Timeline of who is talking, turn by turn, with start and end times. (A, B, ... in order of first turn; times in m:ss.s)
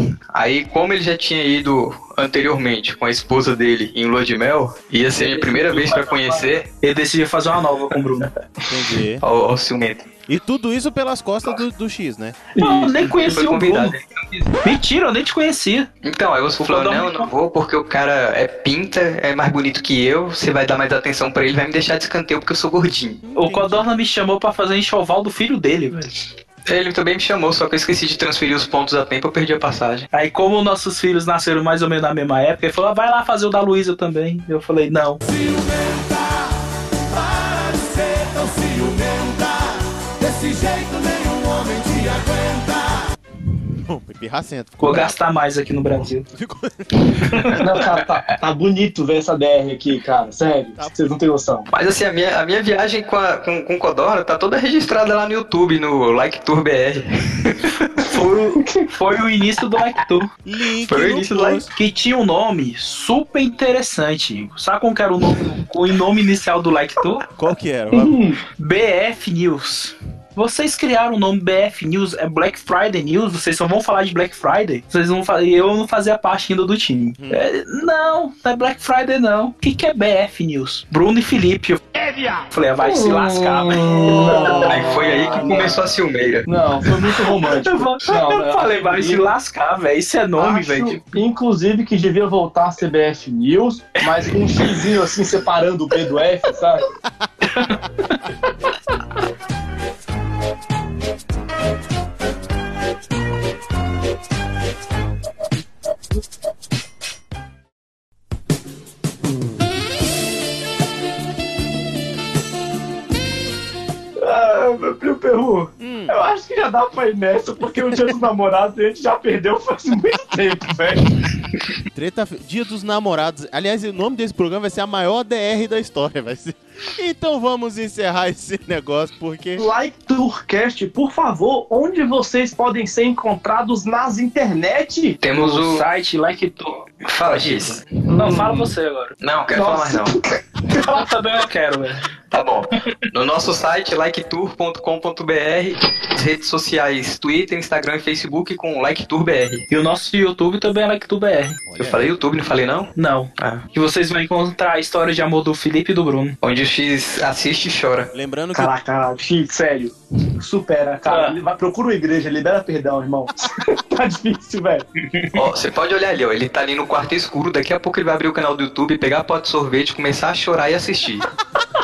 0:00.3-0:06.7 A
0:05.2-0:08.3 B
0:08.7-0:09.2 C
0:09.2-0:10.1 A
0:10.3-0:12.4 C
0:12.6-0:13.2 D
0:12.6-0:14.0 B
0:13.0-0:14.5 A
0:14.6-0:15.9 B
0:16.0-0:23.2 A
0:16.6-0:17.3 B
0:23.2-0:23.9 C
0:23.4-0:26.2 B
0:26.7-0:30.1 A
0:30.1-0:35.2 B
0:35.3-0:36.5 E
0:37.2-0:43.0 E
0:43.8-0:45.2 C
0:44.8-0:46.3 B
0:46.3-0:47.5 C
0:47.6-0:51.7 D
0:51.7-0:58.4 A
0:58.1-1:00.3 B
1:00.4-1:01.7 C
1:00.9-1:01.6 A
1:01.7-1:07.3 B
1:07.4-1:08.3 C
1:07.9-1:08.4 D
1:08.6-1:21.8 B
1:17.2-1:17.5 C
1:21.9-1:22.5 E
1:22.5-1:24.7 B
1:22.8-1:25.8 D
1:24.5-1:26.4 A
1:25.2-1:25.7 B
1:26.5-1:29.2 D
1:27.2-1:31.0 B
1:30.4-1:36.9 D
1:34.5-1:34.8 B
1:37.5-1:37.8 B
1:54.2-2:01.2 D
1:55.8-1:56.2 C
2:01.9-2:09.7 C
2:09.6-2:15.2 D
2:15.2-2:15.8 A
2:15.4-2:19.2 B
2:17.1-2:17.8 A
2:18.1-2:18.7 D
2:19.2-2:20.2 A
2:19.5-2:21.0 D
2:20.7-2:22.1 B
2:22.3-2:29.6 A
2:29.7-2:31.6 B
2:31.7-2:32.1 C
2:31.8-2:33.6 A
2:33.0-2:36.4 B
2:36.4-2:38.1 A
2:38.1-2:38.7 C
2:38.5-2:44.9 D
2:41.1-2:41.4 B
2:45.0-2:45.4 B
2:45.4-2:51.3 A